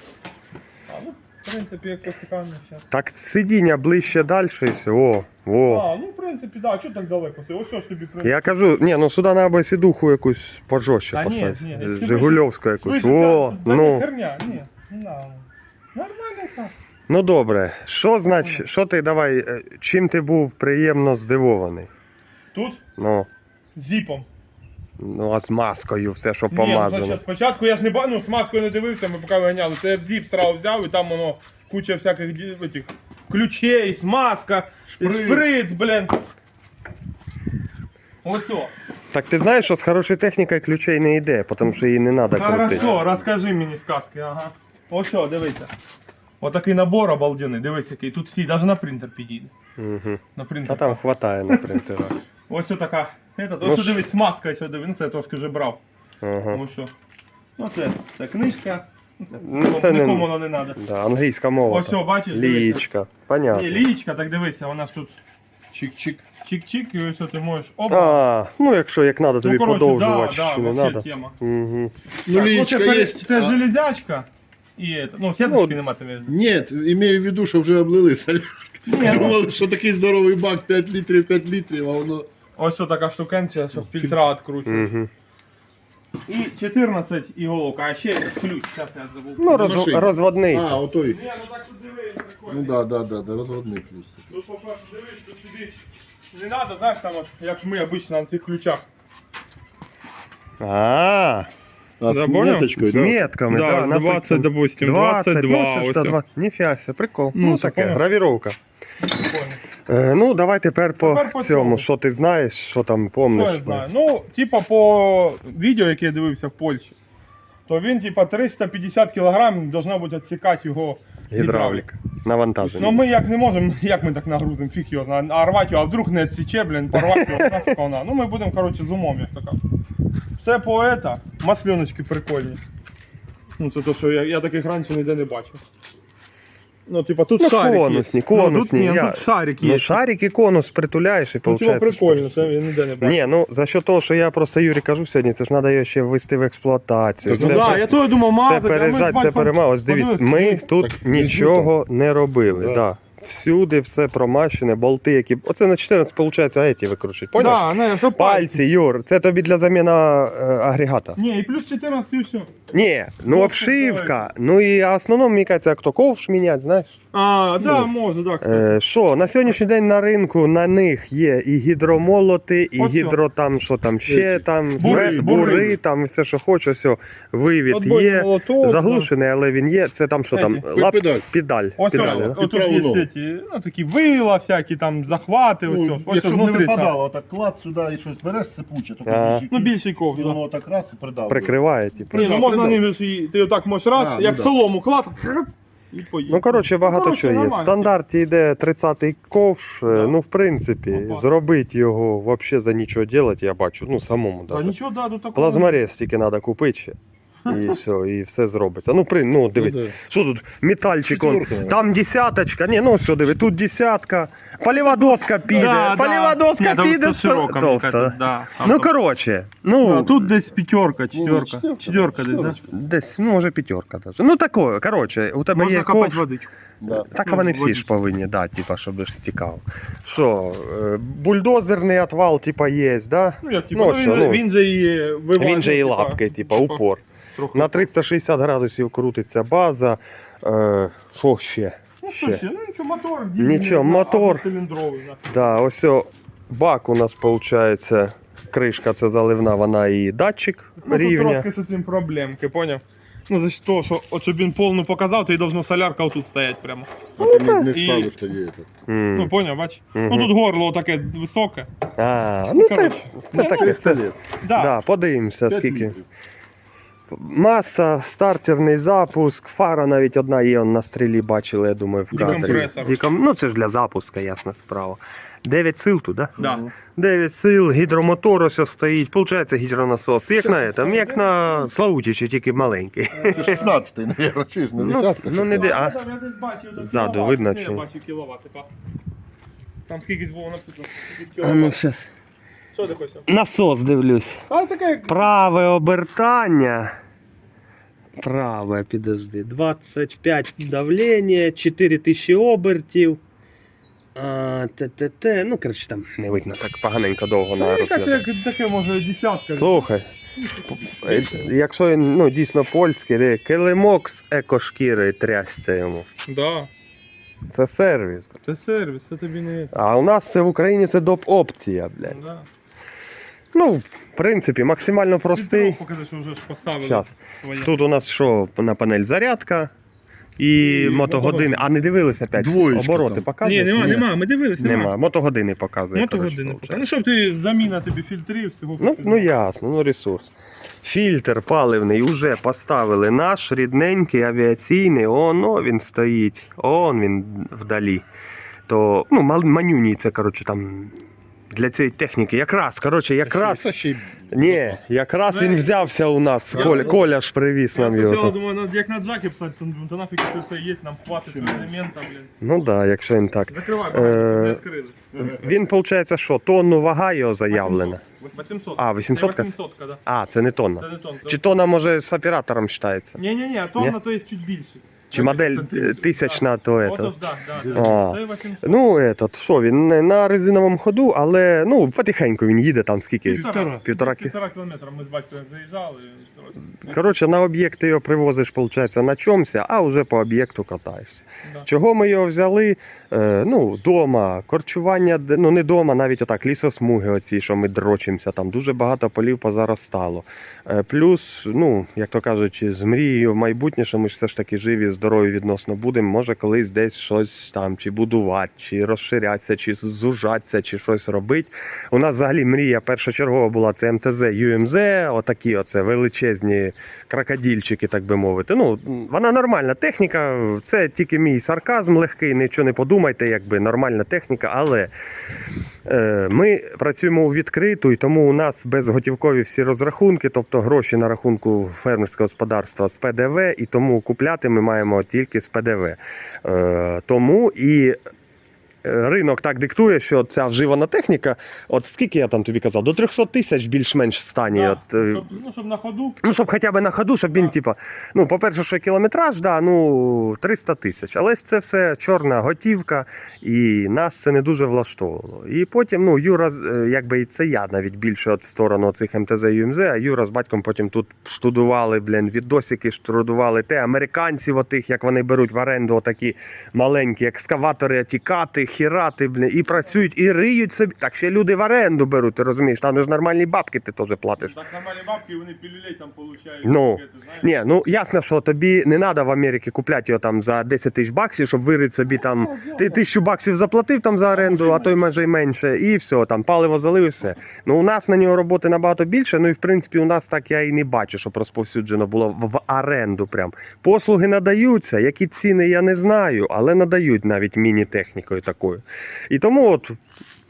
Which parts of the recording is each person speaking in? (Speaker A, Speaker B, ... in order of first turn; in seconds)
Speaker A: 0.9-2.8, 5.6-8.4, 11.1-16.7, 18.3-18.6, 22.5-22.8, 23.7-24.2, 26.5-36.2, 38.2-38.7, 42.3-45.7, 46.4-49.5, 50.3-51.6, 52.5-55.8, 56.5-56.9, 57.6-60.8, 61.6-62.8, 63.5-65.2, 66.4-68.2, 69.4-71.3, 72.3-76.3, 78.8-79.4, 82.5-84.9, 86.3-89.7, 91.1-92.8, 94.3-95.8, 96.3-98.8, 102.1-102.7, 103.5-106.2, 107.3-108.0, 109.0-109.6, 111.0-111.8, 113.3-117.0, 117.7-121.8, 122.6-129.6, 130.4-132.6, 133.6-135.6, 136.9-140.0, 141.4-143.2, 147.3-150.7, 157.3-158.6, 161.1-162.6, 163.2-164.3, 167.1-168.8, 172.8-173.2, 174.8-175.7, 177.7-179.1, 180.3-180.6, 181.8-186.9, 189.5-190.4, 192.1-197.9, 199.9-200.2, 200.9-201.2, 204.5-205.8, 207.4-207.7, 214.7-218.9, 219.8-222.6, 225.5-226.5, 227.1-227.9, 233.4-236.8, 237.3-237.9, 242.0-245.3, 250.8-256.9, 257.7-258.1, 259.1-261.7, 262.5-263.7, 264.4-264.7, 272.1-273.0, 276.4-276.6, 280.4-281.7, 283.1-283.8, 285.5-288.7, 289.9-291.8, 292.7-293.2, 294.5-295.3, 307.6-309.9, 310.5-311.4, 316.2-316.7, 318.4-319.7, 322.0-322.5, 325.3-327.7, 330.6-331.7, 333.4-334.9, 335.9-339.3, 355.3-355.7, 356.5-357.0, 357.7-362.3, 363.5-365.0, 367.5-370.0, 370.8-371.6, 373.1-378.9, 383.2-387.0, 444.5-446.2, 474.4-477.6
Speaker B: 2.9-5.9, 8.2-14.1, 17.1-21.9, 23.0-23.3, 25.0-27.2, 39.1-43.0, 49.8-52.2, 53.6-54.0, 56.2-56.6, 59.4-63.8, 67.9-71.9, 75.4-75.8, 84.7-85.1, 89.4-90.8, 100.6-101.5, 102.7-108.5, 109.9-113.8, 121.3-123.0, 127.0-127.6, 137.4-142.4, 143.0-161.2, 162.7-167.0, 168.4-182.4, 189.1-189.4, 191.3-192.3, 196.3-204.7, 205.3-220.2, 222.6-226.2, 227.1-234.4, 235.4-237.0, 237.5-242.4, 243.4-244.4, 245.3-251.4, 257.2-257.7, 258.9-259.3, 259.9-260.3, 262.0-265.9, 267.1-276.4, 276.9-283.6, 284.8-286.0, 286.8-287.8, 291.4-292.0, 293.3-294.4, 295.1-296.9, 298.2-303.2, 304.1-308.2, 309.6-310.1, 310.7-316.1, 317.5-318.3, 319.7-322.1, 323.5-325.8, 326.8-329.7, 330.4-334.1, 334.6-336.8, 338.8-348.0, 348.7-351.0, 351.5-353.7, 354.3-358.3, 362.4-364.6, 365.1-368.0, 368.8-369.5, 370.1-373.2, 375.1-377.1, 377.7-384.3, 386.8-424.9, 425.9-438.0, 438.8-445.2, 446.2-474.6, 476.6-500.0
Speaker C: 34.9-35.5, 42.7-43.1, 65.7-66.2, 72.2-73.6, 76.3-82.3, 89.5-91.2, 92.5-94.2, 102.0-103.4, 147.2-147.9, 150.7-151.7, 152.5-152.8, 167.6-167.9, 174.1-175.7, 180.7-181.3, 181.9-183.1, 185.7-192.8, 193.9-194.6, 209.6-210.0, 211.1-211.8, 221.1-222.6, 226.8-227.1, 257.2-258.7, 263.3-264.2, 265.5-266.1, 272.1-272.7, 276.4-276.7, 283.3-285.8, 332.4-334.9, 353.2-354.8, 356.5-357.0, 361.1-361.8, 365.1-365.6, 375.1-376.0, 377.6-378.0, 383.2-383.8, 482.1-483.1, 484.3-485.0